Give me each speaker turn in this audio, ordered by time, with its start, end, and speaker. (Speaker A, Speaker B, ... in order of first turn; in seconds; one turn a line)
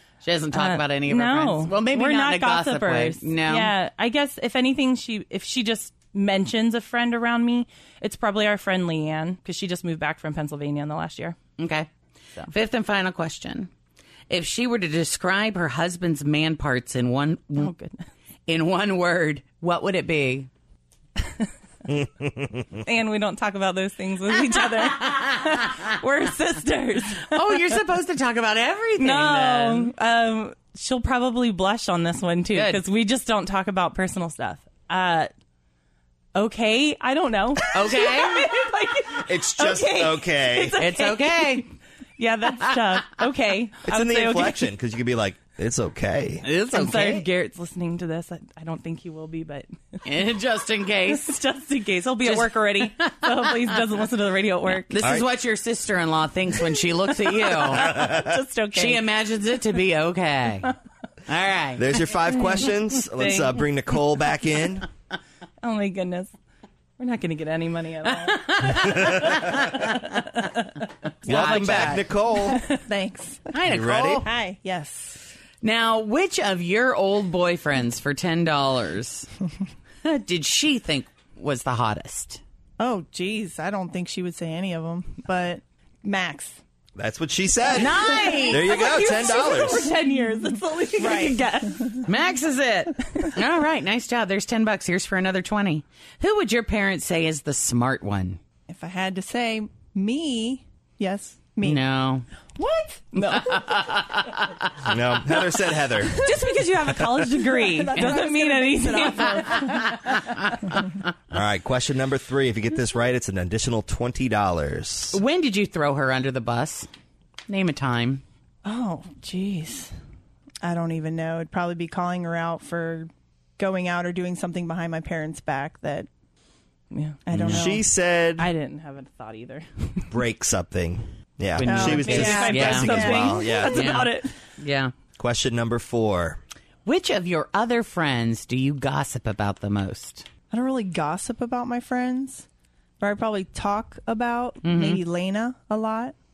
Speaker A: 0.2-3.7
Speaker B: 0.5-11.4
Speaker A: 11.6-11.9
Speaker A: 12.5-13.7
Speaker A: 14.3-17.7
Speaker B: 17.5-18.1
Speaker A: 18.5-20.5
Speaker B: 22.9-27.6
Speaker A: 27.2-29.9
Speaker B: 29.0-35.3
Speaker A: 32.5-32.8
Speaker B: 36.4-44.7
Speaker A: 37.7-38.5
Speaker C: 39.2-40.8
Speaker A: 40.8-41.7
Speaker C: 43.8-46.5
Speaker A: 46.4-47.2
Speaker B: 46.7-49.7
Speaker A: 50.0-51.4
Speaker B: 51.0-55.1
Speaker A: 52.2-53.8
Speaker A: 54.9-58.2
Speaker C: 55.0-55.3
Speaker B: 57.7-59.1
Speaker C: 57.9-58.4
Speaker A: 58.8-60.7
Speaker A: 61.3-61.9
Speaker C: 61.8-64.8
Speaker B: 62.3-63.7
Speaker B: 65.6-66.3
Speaker B: 67.0-70.1
Speaker A: 68.1-68.8
Speaker C: 71.2-72.7
Speaker A: 71.3-71.8
Speaker D: 71.3-71.9
Speaker B: 71.8-72.0
Speaker D: 72.5-75.2
Speaker A: 73.5-74.3
Speaker C: 73.7-74.2
Speaker A: 75.6-79.3
Speaker A: 80.0-82.4
Speaker D: 82.8-86.6
Speaker C: 87.0-89.9
Speaker A: 87.7-88.8
Speaker D: 87.9-88.5
Speaker B: 88.6-91.9
Speaker D: 91.0-91.9
Speaker A: 92.0-98.4
Speaker D: 98.7-101.9
Speaker A: 101.6-102.2
Speaker D: 102.6-103.8
Speaker A: 103.3-104.4
Speaker C: 104.9-106.2
Speaker D: 106.2-106.6
Speaker B: 106.2-109.4
Speaker D: 107.4-109.9
Speaker A: 109.4-110.3
Speaker C: 111.3-115.2
Speaker A: 115.1-116.9
Speaker A: 117.5-118.2
Speaker D: 118.6-119.9
Speaker D: 120.6-126.1
Speaker B: 126.9-127.3
Speaker D: 127.2-127.9
Speaker C: 127.3-128.5
Speaker B: 128.4-130.0
Speaker C: 130.1-133.7
Speaker A: 131.6-132.8
Speaker D: 131.6-133.8
Speaker B: 132.2-134.3
Speaker A: 133.7-134.9
Speaker C: 135.2-136.4
Speaker A: 136.8-140.2
Speaker D: 140.5-142.4
Speaker D: 143.0-146.1
Speaker A: 144.6-145.0